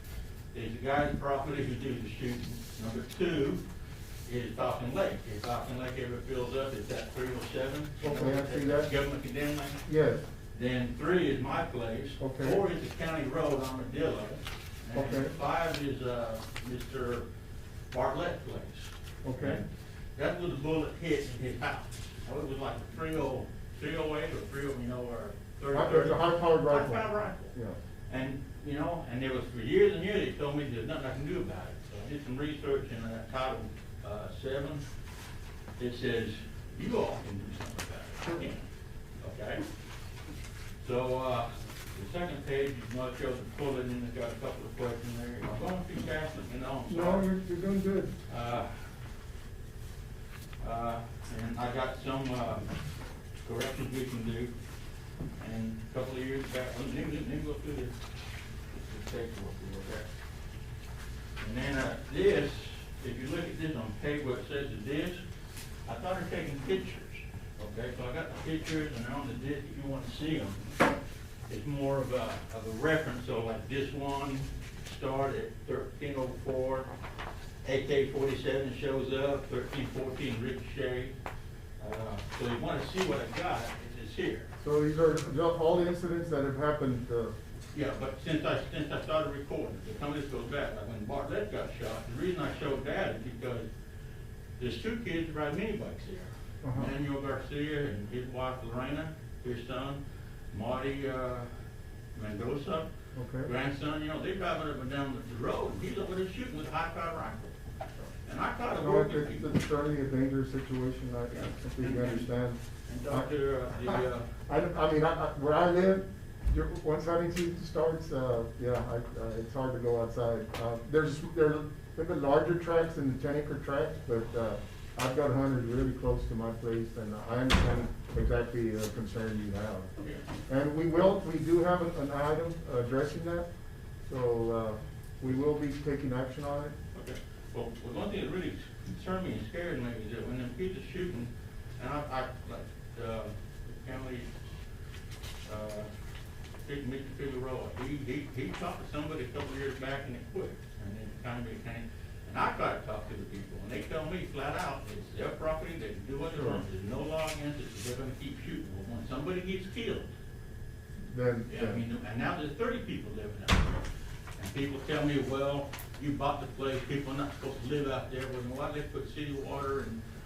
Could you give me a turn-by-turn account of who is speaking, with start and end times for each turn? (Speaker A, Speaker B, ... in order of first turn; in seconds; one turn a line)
Speaker A: 0.5-3.6
Speaker A: 4.3-9.8
Speaker B: 8.0-8.9
Speaker B: 9.9-10.2
Speaker A: 10.5-17.2
Speaker B: 12.2-12.6
Speaker B: 14.9-15.3
Speaker A: 17.9-27.5
Speaker B: 19.2-19.6
Speaker B: 25.7-27.8
Speaker A: 28.1-34.8
Speaker A: 35.8-38.7
Speaker A: 39.2-39.6
Speaker A: 40.8-47.3
Speaker B: 46.9-48.1
Speaker A: 48.3-48.7
Speaker A: 50.6-52.7
Speaker A: 53.4-54.5
Speaker A: 55.4-57.9
Speaker A: 58.7-60.1
Speaker A: 61.4-65.2
Speaker A: 65.9-70.7
Speaker A: 71.5-76.9
Speaker A: 77.6-81.1
Speaker A: 81.8-84.5
Speaker B: 84.6-87.3
Speaker A: 87.7-93.7
Speaker A: 94.6-100.0
Speaker B: 96.6-96.9
Speaker A: 100.5-101.5
Speaker A: 102.1-102.9
Speaker B: 103.1-103.5
Speaker A: 103.4-107.5
Speaker A: 108.2-109.6
Speaker B: 108.8-113.3
Speaker A: 111.4-112.3
Speaker A: 112.9-114.3
Speaker B: 113.9-129.9
Speaker A: 130.0-130.2
Speaker B: 130.5-133.5
Speaker B: 134.1-136.7
Speaker A: 136.9-144.3
Speaker A: 145.4-145.9
Speaker A: 146.6-160.1
Speaker B: 156.3-156.6
Speaker B: 161.0-161.8
Speaker A: 161.5-163.8
Speaker A: 164.4-170.0